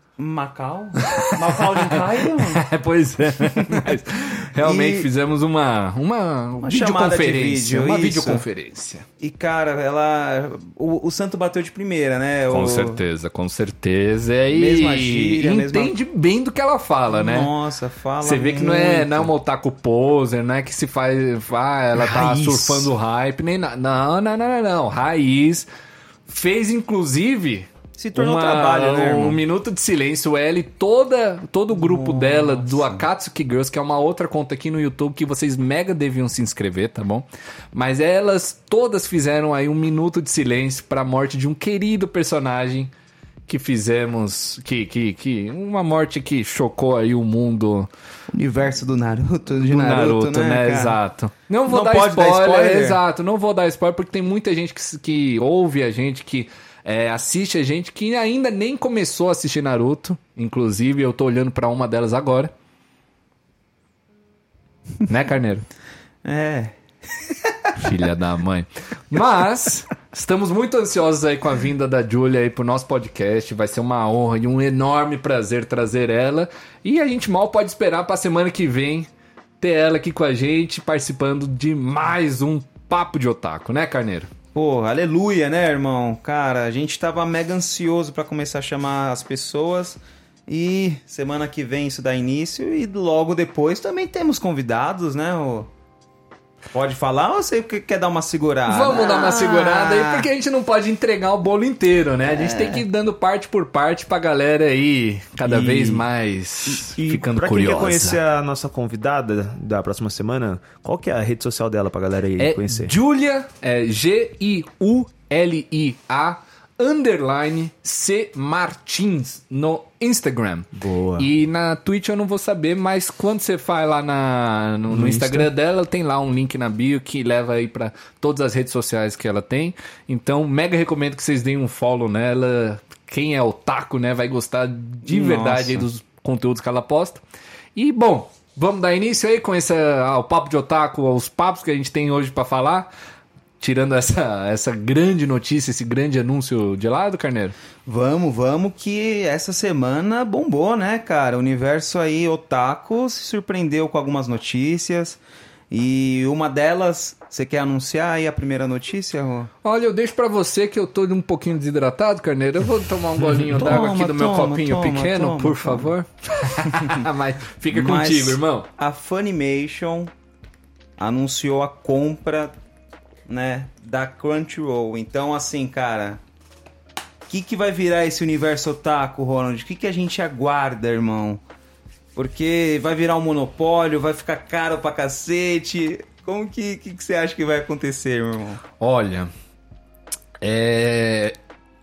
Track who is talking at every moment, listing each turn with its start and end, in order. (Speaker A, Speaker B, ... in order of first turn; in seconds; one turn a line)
Speaker A: 0.2-2.7
Speaker B: 1.0-9.1
Speaker A: 3.4-5.1
Speaker A: 6.6-8.4
Speaker A: 9.2-13.0
Speaker B: 12.5-17.5
Speaker A: 14.5-15.9
Speaker A: 17.1-19.3
Speaker B: 18.2-25.7
Speaker C: 22.1-22.8
Speaker B: 26.3-42.9
Speaker A: 28.0-29.4
Speaker A: 31.7-33.1
Speaker B: 43.5-47.9
Speaker A: 48.3-51.0
Speaker B: 49.6-62.5
Speaker A: 51.7-53.0
Speaker B: 65.1-65.7
Speaker A: 66.2-67.9
Speaker B: 67.8-79.1
Speaker B: 79.6-84.3
Speaker A: 84.5-95.7
Speaker A: 96.7-100.3
Speaker B: 98.7-108.2
Speaker A: 102.3-102.8
Speaker A: 105.5-106.0
Speaker C: 106.8-113.0
Speaker B: 112.4-137.2
Speaker C: 120.8-121.3
Speaker C: 124.9-125.5
Speaker A: 135.1-135.9
Speaker B: 137.8-142.9
Speaker B: 143.6-147.6
Speaker A: 147.9-155.2
Speaker A: 155.7-159.5
Speaker B: 159.6-168.7
Speaker A: 163.4-165.9
Speaker A: 166.7-167.1
Speaker A: 167.7-170.1
Speaker A: 171.0-172.6
Speaker A: 173.3-176.2
Speaker A: 177.3-181.4
Speaker A: 182.2-188.6
Speaker B: 188.8-189.3
Speaker B: 190.4-191.3